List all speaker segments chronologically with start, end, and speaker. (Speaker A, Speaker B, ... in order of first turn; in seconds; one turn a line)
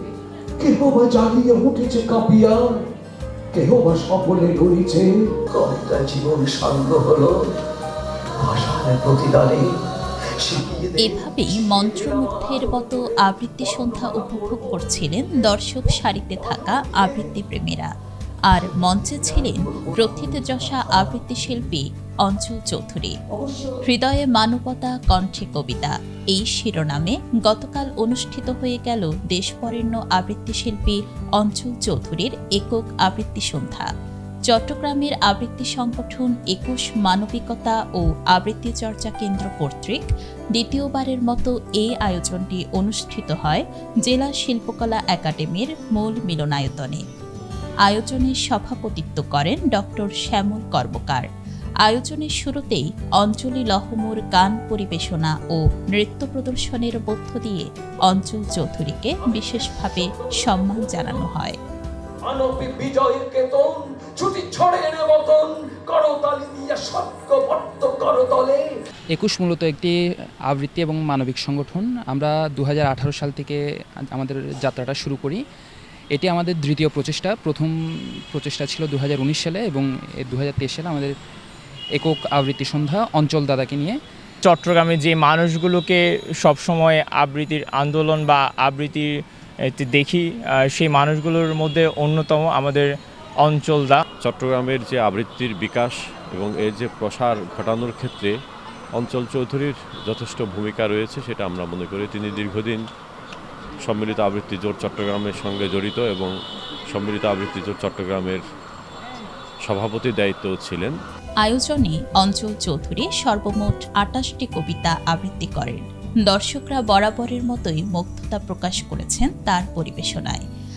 Speaker A: 0.6-2.7
Speaker A: 3.5-7.3
Speaker A: 8.4-9.7
Speaker A: 10.4-11.0
Speaker B: 11.0-17.9
Speaker A: 12.5-13.0
Speaker B: 18.5-23.1
Speaker B: 23.8-33.9
Speaker B: 34.5-47.0
Speaker B: 47.9-51.2
Speaker B: 51.8-61.6
Speaker A: 62.3-68.6
Speaker C: 69.1-69.9
Speaker C: 70.5-75.4
Speaker C: 76.1-77.7
Speaker C: 78.3-81.1
Speaker C: 82.0-84.0
Speaker D: 84.5-92.9
Speaker D: 93.4-94.0
Speaker E: 94.2-98.3
Speaker E: 98.9-102.8
Speaker E: 103.8-106.3
Speaker E: 106.9-108.4
Speaker E: 109.7-110.9
Speaker B: 111.4-120.4